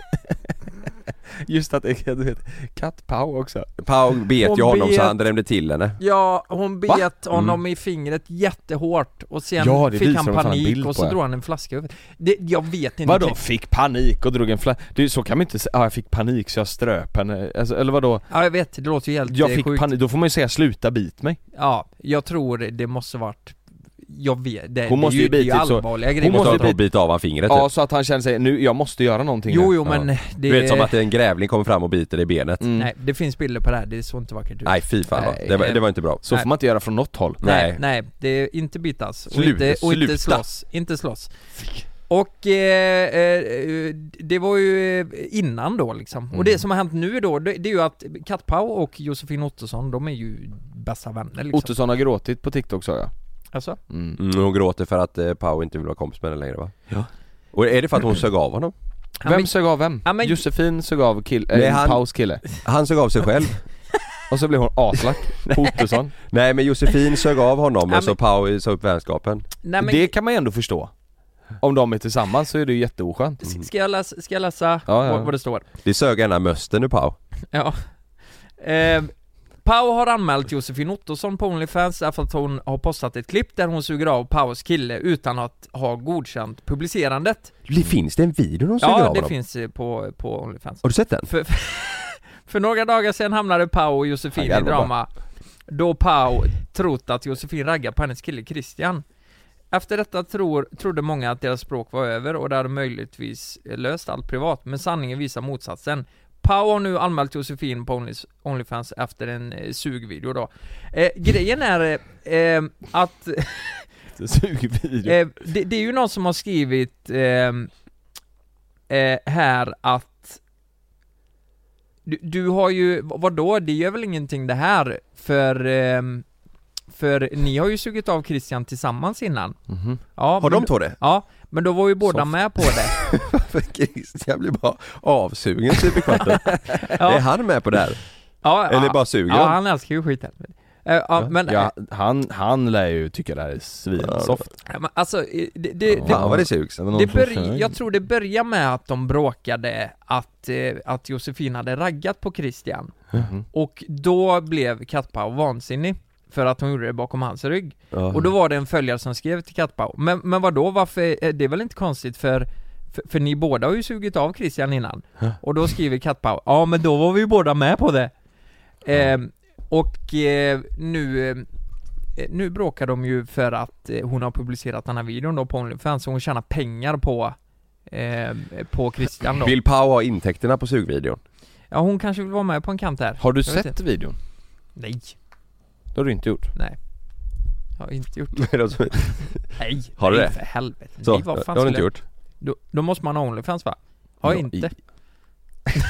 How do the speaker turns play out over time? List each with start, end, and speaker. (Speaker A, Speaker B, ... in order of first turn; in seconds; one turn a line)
Speaker A: 1.4-3.7
Speaker B: 3.8-6.0
Speaker C: 4.4-5.2
Speaker C: 6.0-13.4
Speaker B: 7.3-7.6
Speaker A: 9.6-11.2
Speaker A: 13.0-18.3
Speaker C: 18.3-19.9
Speaker A: 19.3-21.4
Speaker C: 21.5-26.8
Speaker A: 24.9-26.8
Speaker B: 26.2-27.7
Speaker A: 27.4-29.8
Speaker C: 29.5-31.0
Speaker B: 29.8-32.6
Speaker A: 32.6-32.9
Speaker C: 32.8-36.5
Speaker B: 34.6-36.2
Speaker A: 35.1-35.7
Speaker A: 36.2-37.4
Speaker B: 37.4-37.8
Speaker C: 37.4-41.3
Speaker B: 39.3-40.4
Speaker A: 41.6-41.8
Speaker C: 42.1-51.7
Speaker A: 46.3-46.6
Speaker A: 51.5-53.1
Speaker C: 53.5-53.8
Speaker A: 53.9-54.2
Speaker B: 54.2-56.9
Speaker B: 57.5-58.7
Speaker C: 59.2-60.4
Speaker A: 59.2-62.4
Speaker B: 61.5-63.6
Speaker A: 64.3-66.2
Speaker B: 66.3-69.5
Speaker C: 67.9-68.1
Speaker C: 69.6-70.1
Speaker A: 69.8-70.9
Speaker A: 71.6-73.4
Speaker C: 73.4-75.6
Speaker A: 74.9-75.3
Speaker B: 75.8-77.2
Speaker C: 77.5-77.8
Speaker C: 78.6-87.5
Speaker B: 87.7-89.3
Speaker C: 88.8-95.1
Speaker B: 90.8-91.3
Speaker B: 94.4-94.9
Speaker C: 95.7-99.0
Speaker C: 99.7-113.9
Speaker A: 114.2-115.2
Speaker C: 115.0-117.7
Speaker C: 118.9-120.4
Speaker C: 122.0-126.2
Speaker C: 126.9-129.6
Speaker A: 129.7-130.0
Speaker C: 130.1-132.9
Speaker B: 130.4-131.0
Speaker B: 132.1-138.0
Speaker C: 136.8-137.2
Speaker C: 138.4-141.7
Speaker B: 138.7-139.6
Speaker A: 141.5-144.5
Speaker B: 144.0-144.4
Speaker C: 144.7-153.0
Speaker A: 146.0-147.8
Speaker B: 146.0-146.8
Speaker A: 153.1-153.4
Speaker C: 153.5-168.1
Speaker B: 157.9-158.3
Speaker C: 168.8-171.5
Speaker C: 172.2-179.5
Speaker B: 179.3-181.2
Speaker C: 181.7-183.8
Speaker A: 183.2-184.2
Speaker C: 184.7-185.2
Speaker A: 185.9-186.5
Speaker C: 187.8-188.5
Speaker B: 188.3-192.0
Speaker C: 189.6-194.8
Speaker B: 194.2-194.6